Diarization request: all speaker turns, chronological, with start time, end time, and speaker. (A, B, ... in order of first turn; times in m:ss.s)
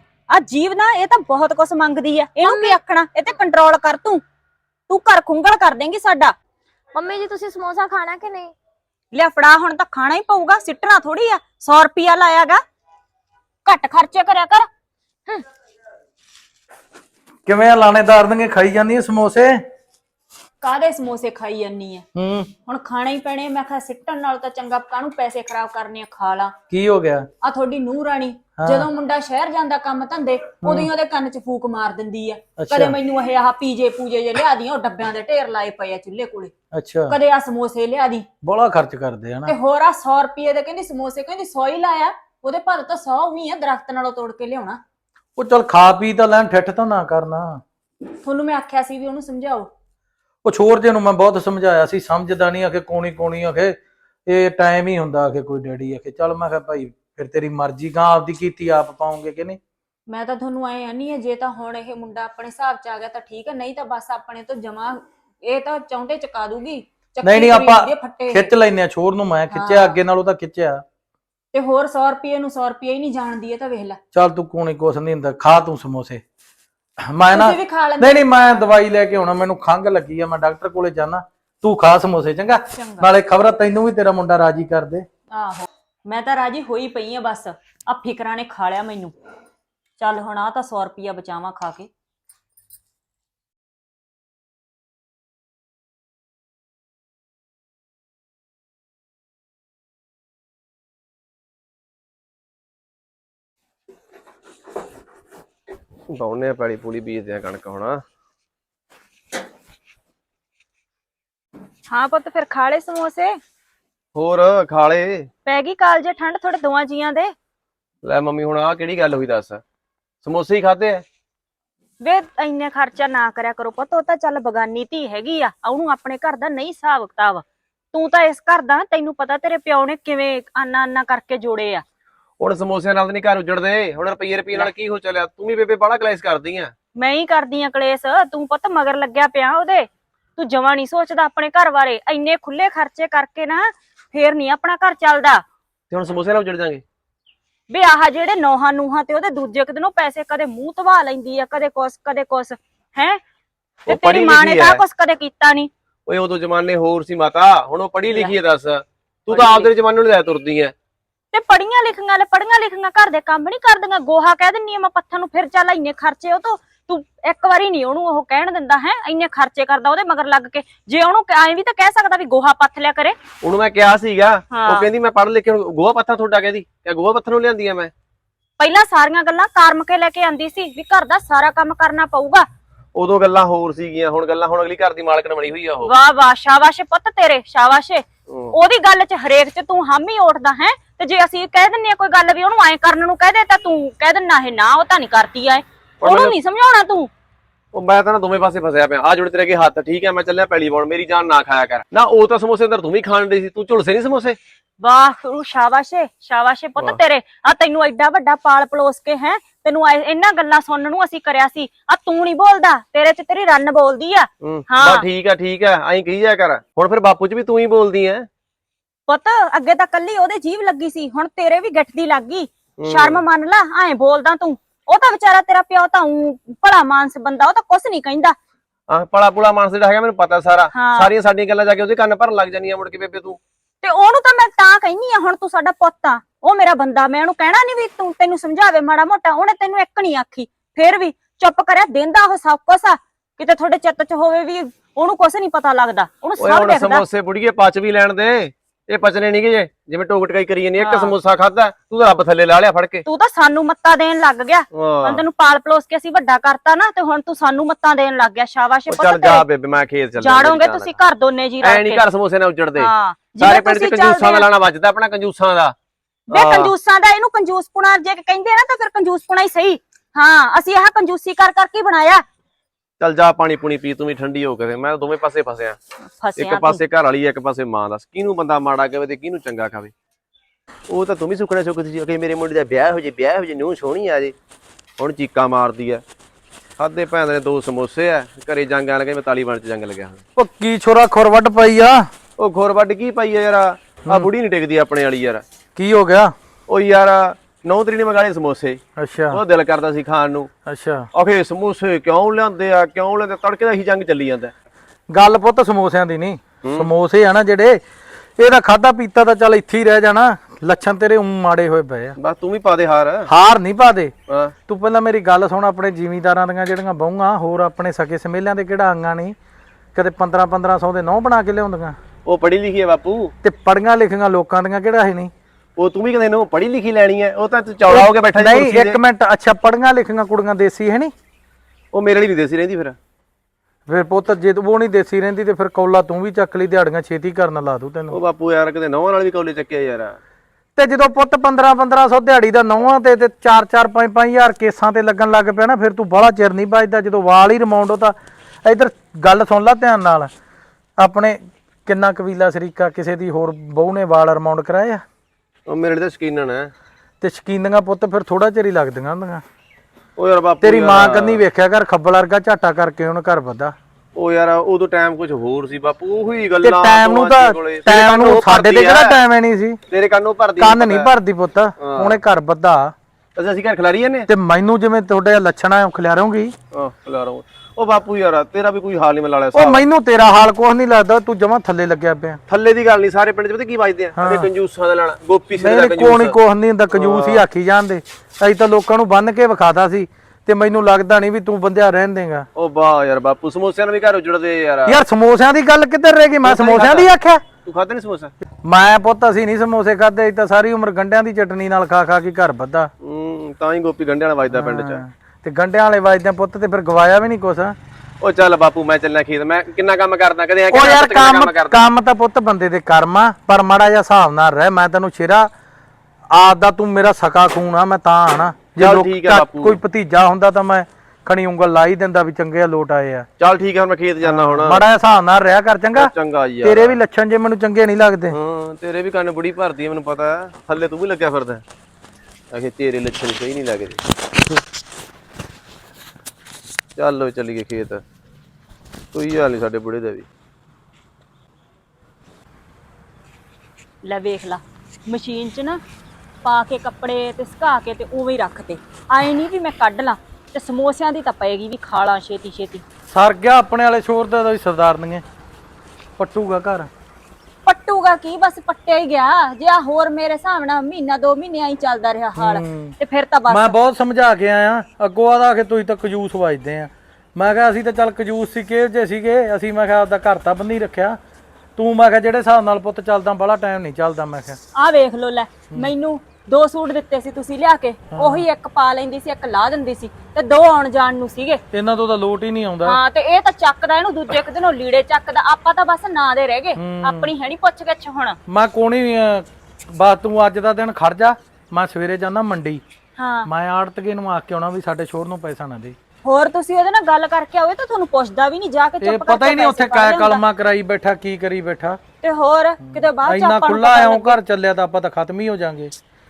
0:00.3-0:04.2 A
0:02.4-0:02.8 B
0:04.9-0:06.3 A
0:06.9-0:08.5 B
0:09.1-0:12.6 A
0:13.6-0:14.7 A
0:17.4-0:19.6 C
0:20.6-0:22.0 A
0:22.1-0:22.5 C
0:22.6-0:26.5 A
0:26.7-0:27.3 C
0:27.4-0:36.5 A
0:28.6-0:28.9 C
0:30.6-0:30.9 C
0:32.6-0:33.0 C
0:36.7-0:37.2 C
0:37.1-0:38.2 A
0:38.4-0:39.5 C
0:39.4-0:44.8 A
0:45.4-0:47.6 C
0:48.2-0:49.7 A
0:50.4-0:59.6 C
1:00.1-1:08.5 A
1:07.2-1:10.8 C
1:09.5-1:10.0 A
1:11.5-1:14.0 A
1:14.1-1:16.2 C
1:17.0-1:25.0 C
1:17.3-1:18.2 A
1:22.7-1:23.1 A
1:25.3-1:29.1 A
1:30.0-1:31.9 A
1:46.1-1:48.0 D
1:51.9-1:53.3 A
1:54.1-1:55.3 D
1:55.4-1:57.3 A
1:58.0-1:59.6 D
2:00.2-2:01.0 D
2:02.0-2:11.8 A
2:12.4-2:16.7 D
2:17.0-2:25.4 A
2:25.9-2:26.8 D
2:27.7-2:33.2 A
2:33.9-2:34.8 D
2:33.9-2:35.7 A
2:36.0-2:40.7 D
2:38.1-2:38.3 A
2:39.3-2:39.7 A
2:41.3-2:53.2 A
2:53.4-2:57.9 D
2:54.5-2:54.9 A
2:58.6-3:02.4 A
3:02.9-3:05.9 D
3:05.8-3:17.1 A
3:08.3-3:08.5 D
3:16.0-3:16.3 D
3:17.7-3:24.4 D
3:24.8-3:35.0 A
3:34.4-3:38.3 D
3:39.1-3:48.3 A
3:42.8-3:43.2 D
3:48.9-3:53.4 D
3:50.7-3:51.1 A
3:53.8-4:07.0 A
4:06.4-4:13.0 D
4:10.8-4:11.2 A
4:13.0-4:19.4 A
4:14.7-4:15.2 D
4:18.9-4:20.9 D
4:20.2-4:22.0 A
4:21.6-4:25.7 D
4:22.8-4:24.5 A
4:26.3-4:26.7 D
4:26.3-4:32.2 A
4:33.0-4:35.8 D
4:36.0-4:36.8 A
4:36.4-4:39.9 D
4:40.9-4:44.3 D
4:45.0-4:46.0 D
4:46.8-4:50.2 D
4:50.4-4:52.0 C
4:52.4-4:55.4 D
4:55.8-4:56.3 C
4:56.7-4:58.8 D
4:59.0-4:59.4 C
4:59.3-5:00.5 D
5:00.7-5:01.1 C
5:01.1-5:04.5 D
5:05.1-5:07.8 C
5:06.6-5:06.9 D
5:08.4-5:12.2 C
5:12.2-5:13.3 D
5:13.2-5:14.1 C
5:14.3-5:14.5 D
5:14.7-5:19.4 C
5:19.9-5:22.0 C
5:22.2-5:23.3 D
5:23.4-5:25.3 C
5:25.8-5:29.0 D
5:27.9-5:31.1 C
5:31.9-5:33.0 D
5:33.9-5:38.2 C
5:38.1-5:40.2 D
5:40.8-5:50.3 C
5:51.0-5:55.0 C
5:55.7-5:56.7 D
5:57.2-5:59.4 C
6:00.2-6:01.4 D
6:00.6-6:03.7 C
6:04.2-6:09.2 D
6:06.6-6:09.8 C
6:09.9-6:11.1 D
6:10.6-6:12.9 C
6:11.8-6:12.2 D
6:13.4-6:14.3 D
6:14.3-6:16.5 C
6:16.7-6:19.8 D
6:19.5-6:22.4 C
6:22.5-6:26.3 D
6:24.2-6:24.5 C
6:25.6-6:32.5 C
6:26.9-6:27.4 D
6:32.6-6:35.0 D
6:34.8-6:37.4 C
6:36.4-6:37.1 D
6:37.6-6:38.3 D
6:38.6-6:42.9 C
6:43.0-6:45.0 D
6:44.5-6:47.8 C
6:48.2-6:51.8 D
6:50.7-6:55.5 C
6:56.3-7:03.3 C
6:58.8-6:59.8 D
7:03.4-7:04.8 D
7:04.2-7:06.1 C
7:05.9-7:07.0 D
7:06.6-7:08.4 C
7:08.3-7:11.6 D
7:12.5-7:14.0 D
7:17.0-7:18.0 D
7:19.1-7:20.3 D
7:24.0-7:25.8 A
7:26.4-7:32.8 A
7:33.1-7:35.2 C
7:36.2-7:36.9 C
7:37.6-7:43.7 A
7:42.4-7:42.9 C
7:43.5-7:51.2 C
7:51.8-7:54.6 C
7:54.7-8:01.6 A
7:58.1-7:58.4 C
8:01.7-8:03.0 C
8:02.8-8:08.4 A
8:06.8-8:07.3 C
8:08.5-8:12.8 C
8:13.2-8:13.5 A
8:13.4-8:16.0 C
8:16.2-8:20.4 A
8:19.0-8:22.0 C
8:22.2-8:24.4 A
8:22.8-8:25.9 C